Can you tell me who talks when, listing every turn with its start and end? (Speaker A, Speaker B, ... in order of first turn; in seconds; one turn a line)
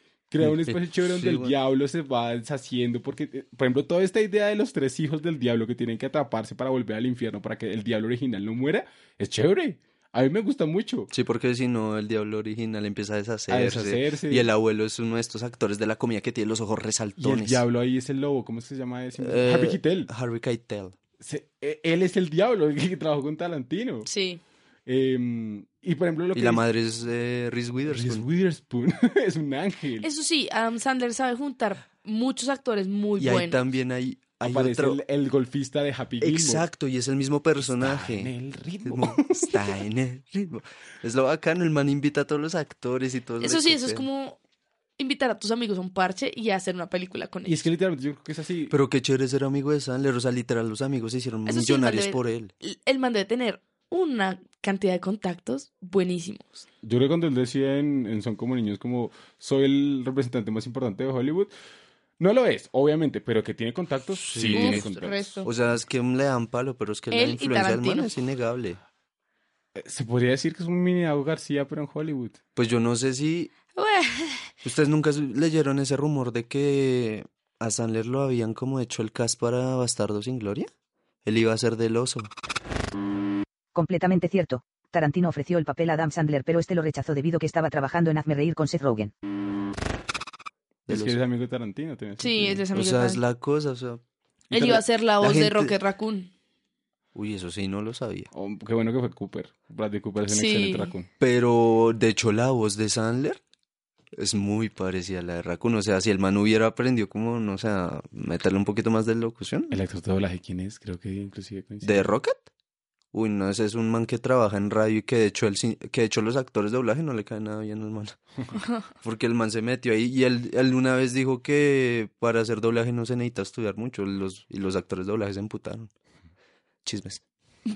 Speaker A: 0.3-11.1
Speaker B: 0.4-1.5
Speaker B: 11.1-17.6
Speaker A: 13.5-14.5
Speaker A: 17.2-20.1
Speaker B: 19.2-20.9
Speaker A: 21.2-24.1
Speaker C: 24.1-24.4
Speaker A: 24.9-26.6
Speaker B: 26.3-28.2
Speaker A: 27.9-30.1
Speaker C: 30.0-33.6
Speaker B: 33.2-35.0
Speaker A: 34.4-36.6
Speaker B: 36.2-38.3
Speaker A: 37.6-39.7
Speaker B: 38.8-44.0
Speaker C: 43.4-44.4
Speaker C: 45.0-47.6
Speaker A: 47.4-48.8
Speaker B: 48.7-52.5
Speaker C: 51.5-56.6
Speaker A: 56.8-61.5
Speaker A: 62.2-65.4
Speaker B: 64.2-64.9
Speaker C: 64.5-65.5
Speaker B: 65.4-68.8
Speaker C: 67.1-68.1
Speaker A: 69.7-72.4
Speaker B: 72.5-73.5
Speaker C: 73.8-74.5
Speaker B: 74.6-80.7
Speaker B: 81.2-82.3
Speaker D: 83.7-89.1
Speaker B: 90.9-91.1
Speaker A: 90.9-92.6
Speaker C: 92.2-93.2
Speaker B: 92.7-94.0
Speaker C: 94.5-96.3
Speaker B: 94.5-95.8
Speaker B: 97.1-98.3
Speaker A: 98.3-101.1
Speaker C: 100.3-100.9
Speaker B: 101.2-103.4
Speaker B: 104.2-109.8
Speaker A: 109.7-112.2
Speaker B: 111.8-112.4
Speaker B: 113.1-118.2
Speaker B: 119.0-125.9
Speaker B: 126.8-127.2